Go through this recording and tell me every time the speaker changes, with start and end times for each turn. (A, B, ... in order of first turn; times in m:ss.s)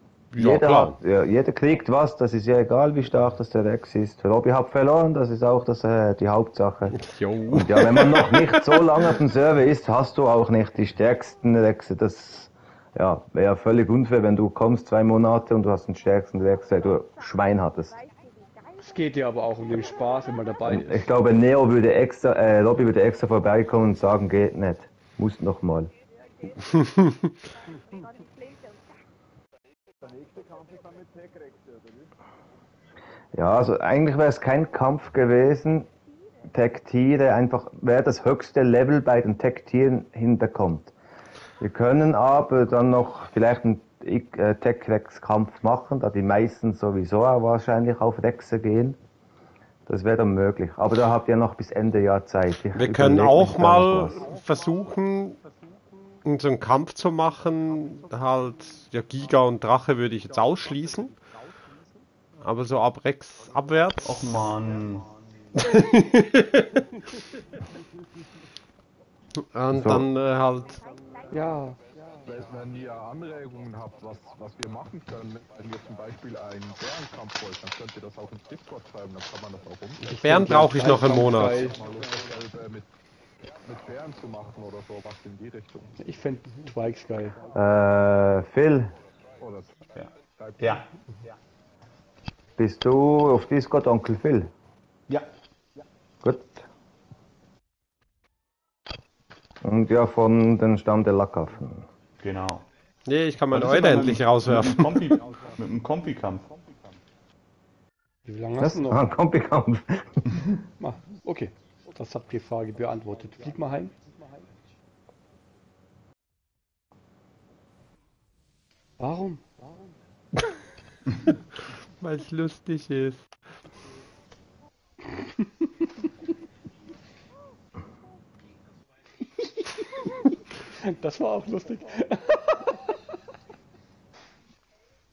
0:00.3-0:01.0 A
0:00.4-0:18.0 B
0:06.9-0:08.4 A
0:18.8-0:21.0 C
0:20.6-0:25.9 B
0:33.3-0:35.9 B
0:36.5-0:40.9 B
0:41.6-0:49.0 B
0:49.9-0:54.2 B
0:52.7-0:55.4 A
0:56.2-1:01.1 A
1:02.4-1:04.4 A
1:04.0-1:05.1 D
1:05.6-1:06.6 A
1:09.5-1:10.8 A
1:09.7-1:10.1 B
1:11.3-1:11.8 C
1:12.2-1:20.1 E
1:20.0-1:21.6 A
1:20.1-1:21.8 C
1:21.1-1:22.9 E
1:23.6-1:25.9 E
1:26.0-1:27.4 C
1:27.5-1:28.9 B
1:29.4-1:30.7 E
1:30.0-1:30.8 D
1:32.6-1:34.5 B
1:36.2-1:36.6 B
1:39.6-1:41.8 B
1:42.2-1:42.6 D
1:43.0-1:45.2 A
1:43.5-1:46.5 D
1:48.2-1:49.0 C
1:48.6-1:50.3 B
1:50.8-1:53.9 C
1:59.0-1:59.4 C
2:02.0-2:03.3 A
2:10.8-2:12.8 C